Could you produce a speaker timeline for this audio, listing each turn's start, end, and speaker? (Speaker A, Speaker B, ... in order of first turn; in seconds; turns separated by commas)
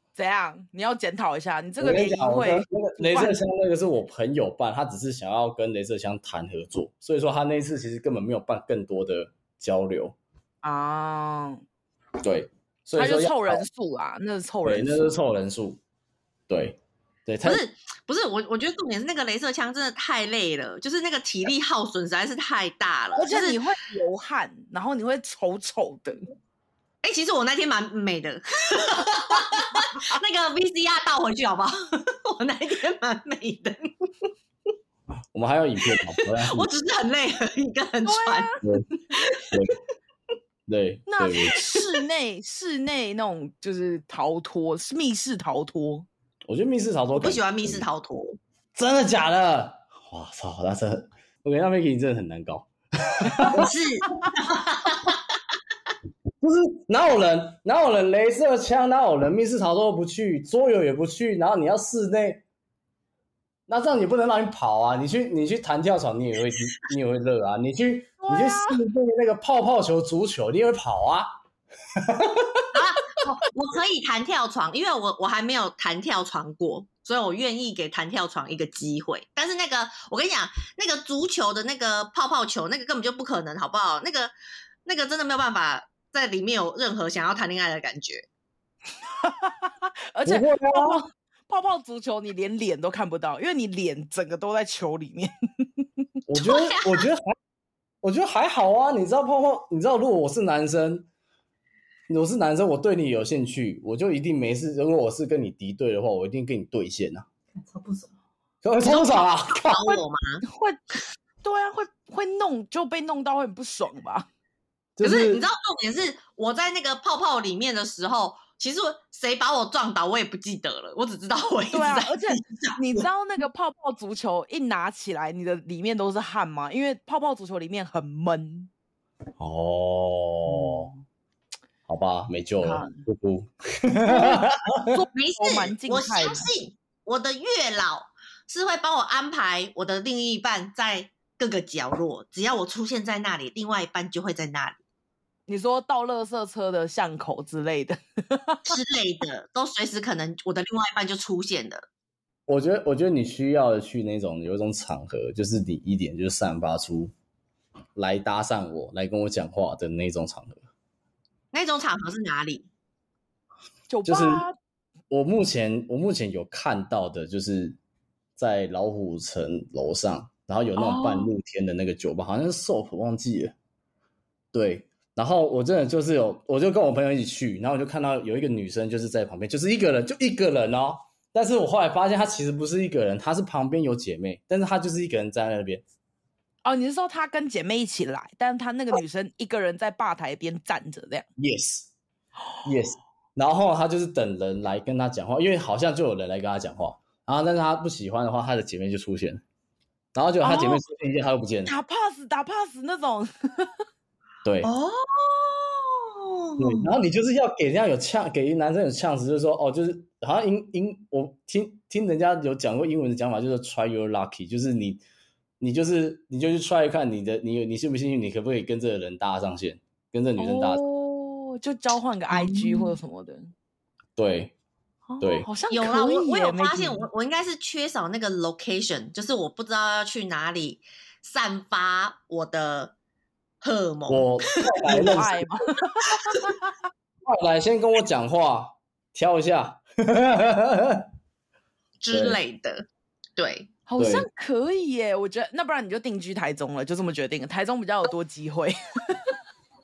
Speaker A: 0.1-3.4, Speaker B: 1.8-10.1, Speaker A: 10.6-11.6, Speaker B: 12.2-13.6, Speaker A: 12.9-15.1, Speaker B: 14.6-15.8, Speaker B: 16.5-17.6, Speaker C: 17.4-23.6, Speaker A: 23.1-26.2, Speaker C: 27.0-34.1, Speaker B: 35.3-36.7, Speaker C: 35.9-38.5, Speaker A: 38.0-38.6, Speaker C: 39.1-39.6, Speaker B: 40.7-41.6, Speaker A: 41.1-46.1, Speaker B: 46.5-47.8, Speaker C: 47.1-48.4, Speaker B: 48.7-53.7, Speaker C: 53.5-55.2, Speaker B: 56.4-62.4, Speaker B: 63.7-71.3, Speaker A: 68.2-68.8, Speaker B: 72.0-72.7, Speaker C: 72.7-84.3, Speaker C: 84.8-88.3, Speaker A: 89.2-95.3, Speaker B: 90.2-91.0, Speaker B: 96.3-97.3, Speaker C: 96.3-97.1, Speaker B: 98.0-101.0, Speaker B: 102.1-107.3, Speaker B: 108.6-110.0, Speaker C: 108.8-110.4, Speaker A: 110.4-114.3, Speaker B: 115.0-115.4, Speaker C: 115.0-123.0, Speaker A: 121.7-128.7, Speaker B: 129.4-130.9, Speaker A: 130.5-131.0, Speaker B: 131.9-135.0, Speaker A: 132.6-133.0, Speaker A: 134.0-136.5, Speaker C: 135.1-144.8, Speaker A: 145.5-148.8, Speaker C: 148.7-151.9, Speaker B: 152.5-157.1, Speaker B: 157.9-160.6, Speaker C: 161.5-162.7, Speaker A: 163.9-164.5, Speaker B: 164.1-164.4, Speaker B: 165.1-167.8, Speaker B: 168.4-173.5, Speaker A: 170.8-171.0, Speaker B: 174.5-185.8, Speaker A: 186.6-191.2, Speaker B: 191.4-191.9, Speaker B: 192.6-199.4, Speaker B: 200.1-201.7, Speaker A: 200.4-200.8, Speaker A: 201.7-203.8, Speaker B: 204.4-204.7, Speaker C: 204.6-206.9, Speaker B: 206.6-215.0, Speaker B: 215.6-220.8, Speaker A: 220.4-223.5, Speaker B: 224.2-224.5, Speaker A: 225.1-227.1, Speaker B: 225.2-225.5, Speaker C: 225.7-232.9, Speaker C: 233.6-234.4, Speaker B: 234.1-235.4, Speaker A: 234.8-236.5, Speaker C: 236.1-236.5, Speaker B: 237.2-241.1, Speaker C: 242.0-242.8, Speaker B: 242.1-242.4, Speaker C: 243.4-243.7, Speaker A: 243.9-249.4, Speaker B: 244.0-244.2